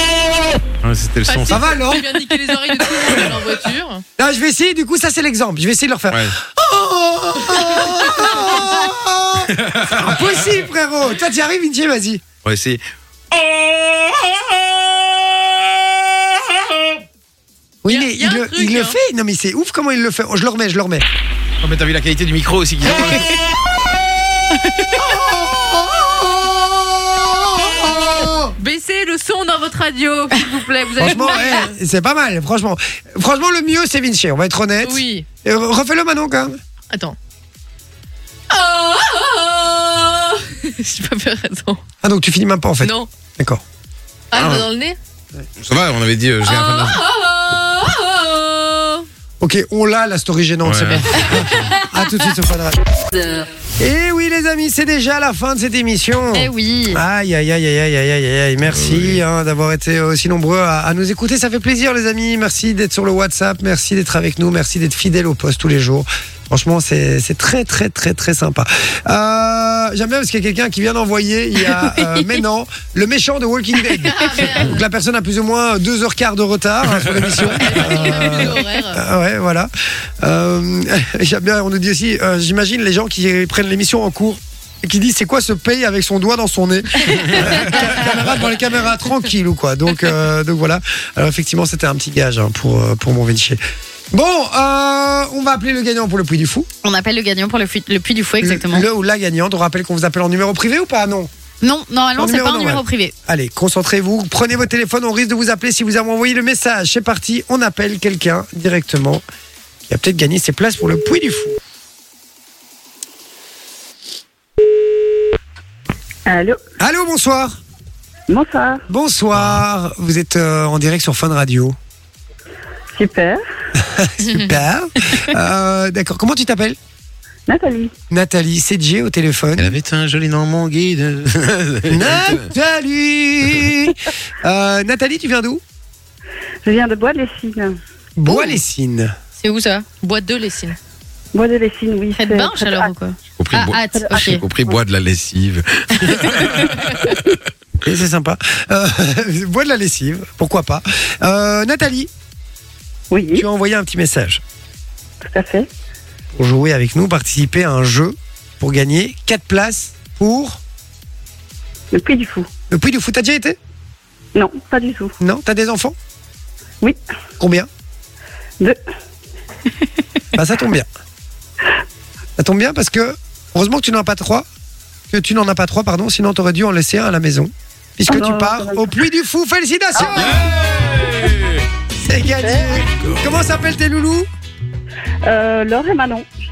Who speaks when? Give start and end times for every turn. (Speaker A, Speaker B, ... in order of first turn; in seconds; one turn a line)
Speaker A: 0.8-1.7
Speaker B: 1.2-4.0
Speaker C: 1.5-2.0
Speaker C: 4.2-12.2
Speaker A: 6.1-6.3
Speaker B: 7.6-8.7
Speaker A: 8.3-8.8
Speaker A: 9.4-10.6
Speaker A: 12.4-17.0
Speaker C: 17.8-21.0
Speaker B: 17.9-19.0
Speaker A: 21.6-23.4
Speaker C: 25.0-28.5
Speaker B: 28.6-31.7
Speaker C: 31.0-36.6
Speaker B: 34.8-35.2
Speaker B: 36.9-37.1
Speaker B: 38.5-41.8
Speaker C: 42.0-43.6
Speaker B: 42.8-43.1
Speaker B: 44.3-45.0
Speaker A: 44.3-44.7
Speaker A: 45.6-47.0
Speaker B: 46.4-49.1
Speaker C: 49.4-52.8
Speaker A: 50.6-51.7
Speaker B: 51.2-52.1
Speaker C: 53.8-79.7
Speaker D: 56.3-57.0
Speaker A: 58.6-59.2
Speaker D: 71.7-72.4
Speaker B: 73.9-74.8
Speaker A: 76.9-77.5
Speaker B: 77.2-79.0
Speaker C: 80.2-93.6
Speaker C: 94.1-96.7
Speaker D: 96.8-98.8
Speaker C: 98.4-101.3
Speaker D: 101.6-103.1
Speaker C: 102.2-109.2
Speaker C: 109.9-111.6
Speaker E: 116.3-116.6
Speaker C: 116.8-117.6
Speaker E: 118.3-118.8
Speaker C: 118.9-121.8
Speaker A: 119.3-119.6
Speaker E: 123.0-123.4
Speaker C: 123.8-126.8
Speaker B: 124.2-124.5
Speaker E: 127.5-127.9
Speaker C: 128.1-129.7
Speaker A: 129.6-132.5
Speaker C: 131.9-135.6
Speaker E: 136.6-137.8
Speaker C: 138.2-139.1
Speaker D: 139.4-139.8
Speaker B: 140.0-140.8
Speaker E: 141.3-142.9
Speaker D: 142.2-144.4
Speaker A: 143.4-147.4
Speaker E: 143.9-144.8
Speaker D: 146.3-146.7
Speaker C: 147.8-152.1
Speaker E: 153.1-153.4
Speaker C: 153.3-154.4
Speaker E: 155.2-155.7
Speaker C: 156.3-160.6
Speaker E: 161.9-162.5
Speaker C: 162.7-163.6
Speaker E: 164.3-165.1
Speaker C: 165.2-165.9
Speaker C: 167.4-167.7
Speaker C: 170.3-170.9
Speaker C: 172.4-174.4
Speaker C: 175.1-180.4
Speaker E: 178.1-179.0
Speaker E: 179.9-180.6
Speaker A: 180.1-181.7
Speaker C: 182.0-184.3
Speaker E: 182.4-182.8
Speaker A: 183.0-183.3
Speaker E: 185.2-186.2